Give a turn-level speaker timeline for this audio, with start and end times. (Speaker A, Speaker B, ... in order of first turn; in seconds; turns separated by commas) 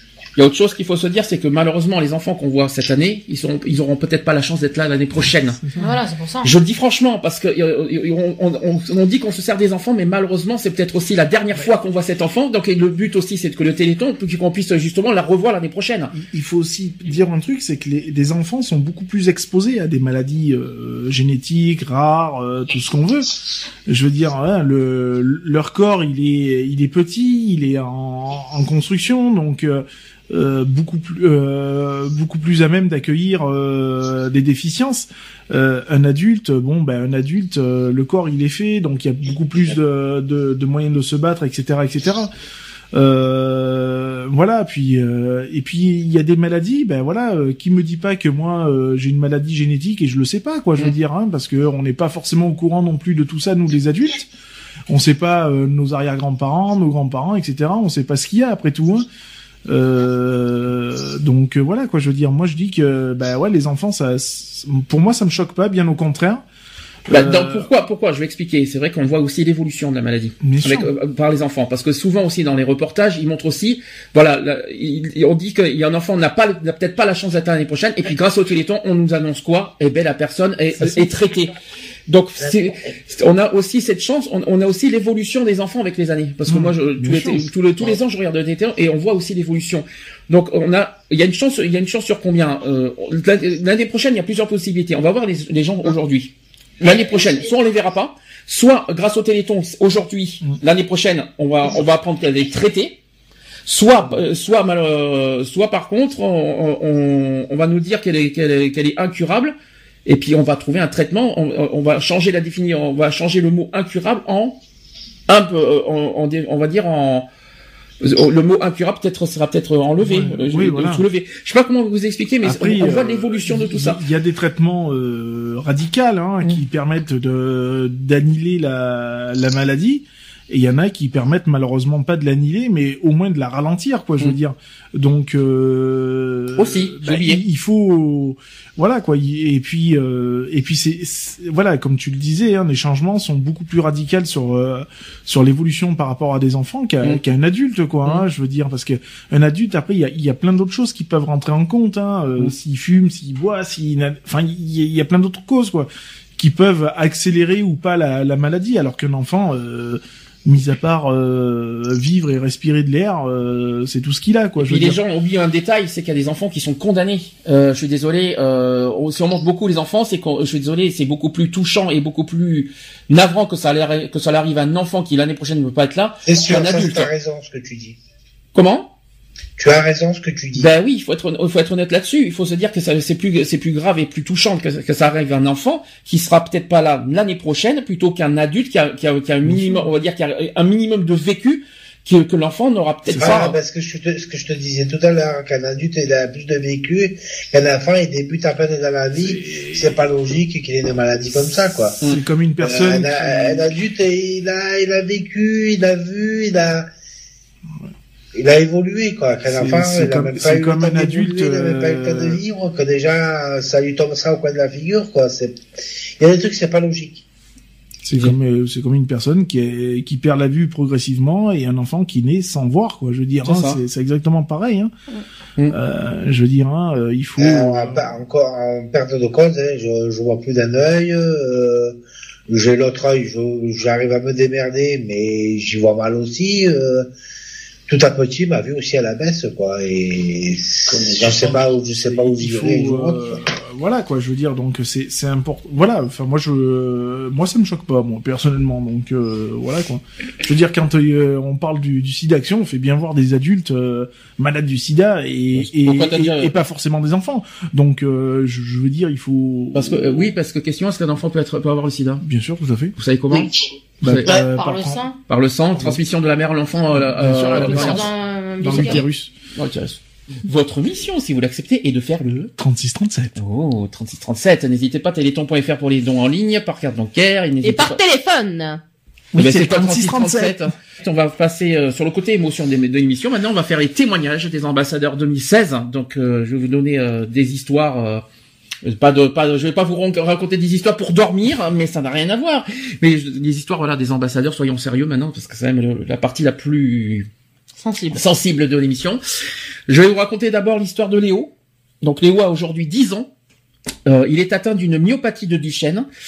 Speaker A: 0.4-5.6, Speaker B: 5.6-6.0, Speaker C: 5.8-6.5, Speaker A: 6.4-16.1, Speaker B: 16.1-23.3, Speaker B: 23.9-42.3, Speaker B: 42.9-54.3, Speaker B: 54.9-59.1, Speaker B: 59.7-66.4, Speaker B: 67.1-67.7, Speaker A: 67.1-81.6, Speaker B: 70.4-70.9, Speaker B: 80.8-81.1, Speaker A: 82.1-103.0, Speaker B: 86.5-87.5, Speaker A: 103.7-109.5, Speaker A: 110.1-114.6, Speaker A: 115.3-117.3, Speaker A: 118.0-124.0, Speaker B: 120.0-121.1, Speaker B: 122.4-165.0, Speaker A: 136.6-137.4, Speaker A: 164.6-177.1, Speaker D: 176.2-178.0, Speaker A: 178.5-178.9, Speaker D: 179.6-180.7, Speaker A: 180.6-193.6, Speaker B: 189.4-189.9, Speaker B: 193.1-193.4, Speaker D: 193.1-202.0, Speaker B: 199.1-200.1, Speaker B: 202.0-203.8, Speaker D: 202.6-206.9, Speaker D: 208.3-215.6, Speaker B: 209.5-212.4, Speaker D: 216.2-217.2, Speaker B: 218.1-224.9, Speaker A: 223.4-223.8, Speaker B: 225.7-228.1, Speaker D: 227.4-237.1, Speaker D: 237.9-243.4, Speaker B: 240.9-260.3, Speaker A: 255.5-256.5, Speaker A: 259.7-262.2, Speaker B: 262.2-262.9, Speaker A: 263.0-264.4, Speaker B: 264.0-265.0, Speaker C: 264.2-265.2, Speaker A: 265.3-268.1, Speaker B: 265.8-266.0, Speaker B: 266.9-269.3, Speaker C: 267.3-269.0, Speaker A: 268.7-272.5, Speaker B: 272.6-273.4, Speaker A: 273.4-278.0, Speaker C: 277.6-278.8, Speaker B: 279.3-280.7, Speaker A: 279.4-288.2, Speaker A: 288.8-297.3, Speaker C: 297.8-298.2, Speaker A: 298.1-299.2, Speaker A: 299.9-303.3, Speaker A: 304.1-306.1